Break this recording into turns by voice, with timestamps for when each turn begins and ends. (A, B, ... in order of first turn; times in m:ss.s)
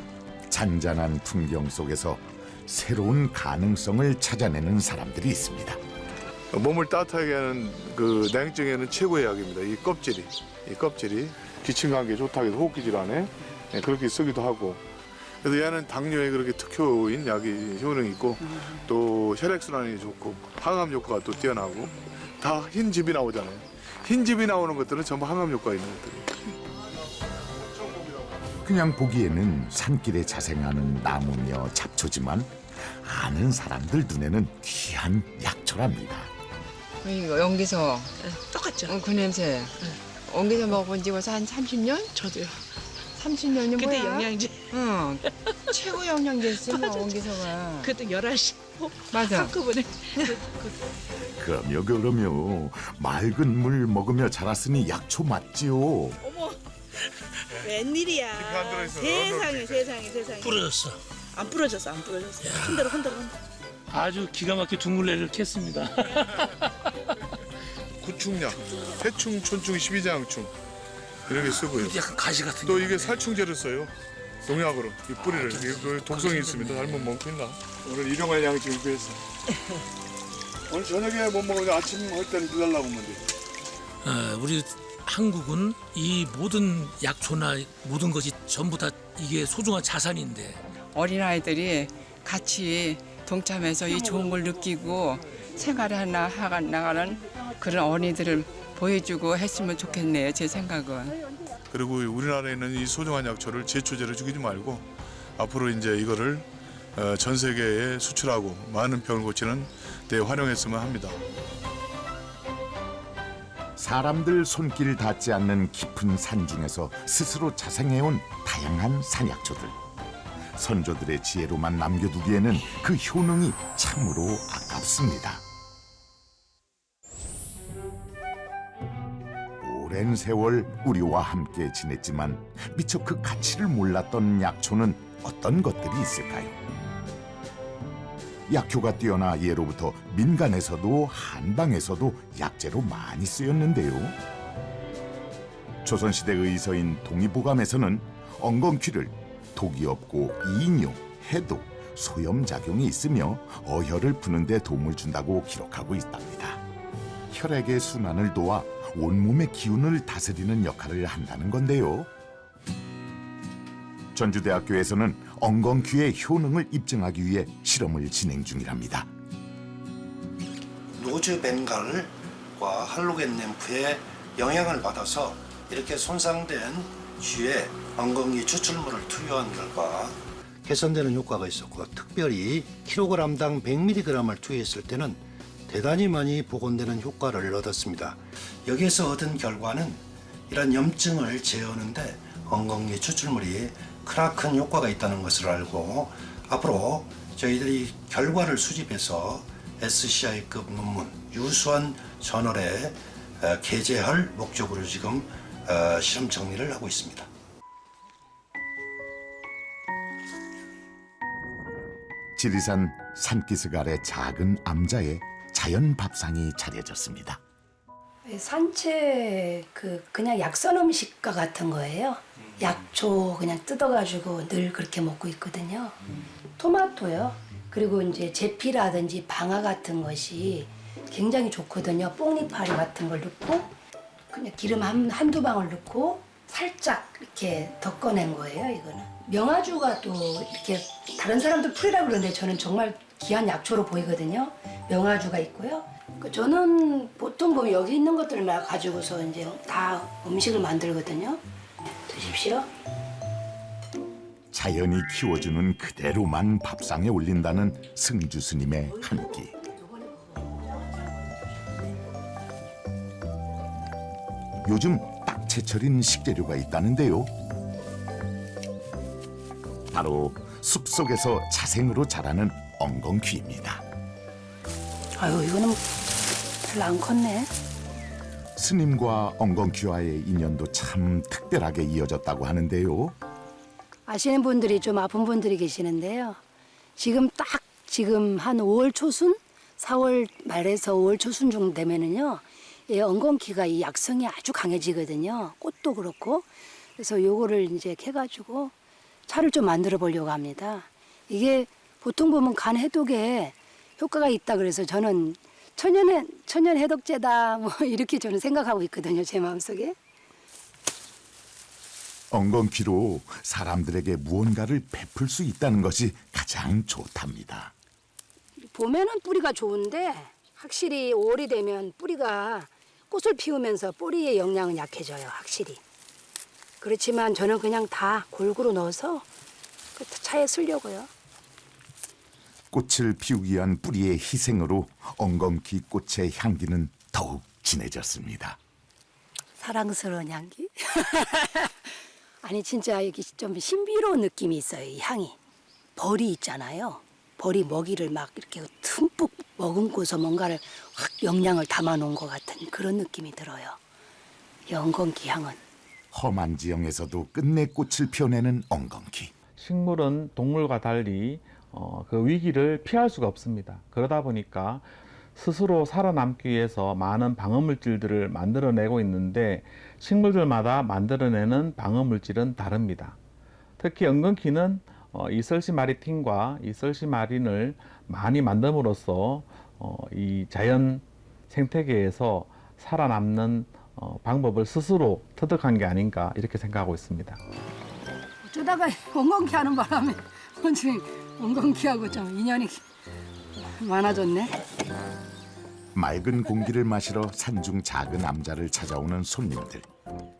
0:00.5-0:05.8 A
0:06.5-0:14.8 B
0:15.4-0:26.4 B
0:28.6-0:36.3 A
0:37.0-0:38.2 C
0:38.2-0:39.0 D
0:38.9-0:42.2 C
0:42.1-0:42.6 D
0:43.2-0:45.2 C
0:43.5-0:44.7 D
0:45.7-0:50.8 D
0:46.4-0:47.9 C
0:49.1-0:49.6 C
0:51.4-0:56.2 A
0:56.2-0:56.6 D
0:57.6-1:00.7 D
0:58.3-0:59.9 B
1:00.4-1:01.0 E
1:01.3-1:03.3 D
1:02.4-1:02.8 E
1:03.9-1:06.5 E
1:08.0-1:10.5 B
1:11.3-1:19.2 B
1:11.3-1:13.3 E
1:15.1-1:17.2 E
1:20.7-1:23.3 B
1:24.0-1:30.6 E
1:30.9-1:41.2 C
1:41.7-1:44.8 B
1:45.4-1:51.2 B
1:53.8-1:59.8 A
2:00.6-2:05.4 A
2:09.6-2:16.6 A
2:18.5-2:24.2 A
2:25.8-2:36.6 A
2:37.3-2:42.1 A
2:44.1-2:49.1 A
2:51.0-3:27.3 F
3:32.4-3:37.4 A
3:38.2-3:46.0 G
3:46.6-3:53.7 G
3:54.3-4:11.4 G
4:12.1-4:12.7 G
4:14.5-4:19.5 A
4:20.1-4:20.5 G
4:24.6-4:27.3 A
4:29.9-4:33.8 A
4:35.2-4:37.5 G
4:38.6-4:43.2 A
4:44.1-4:46.4 G
4:47.0-4:58.8 G
4:59.3-5:10.0 G
5:12.3-5:17.7 A
5:18.6-5:25.8 G
5:26.8-5:29.3 G
5:30.0-5:31.1 G
5:32.7-5:38.6 A
5:39.6-5:41.9 G
5:42.4-5:45.4 G
5:46.0-5:53.8 G
5:54.7-5:55.6 G
5:56.1-5:59.3 A
5:59.6-6:13.2 H
6:13.8-6:27.4 H
6:28.4-6:32.8 G
6:33.6-6:34.6 G
6:35.9-6:39.9 A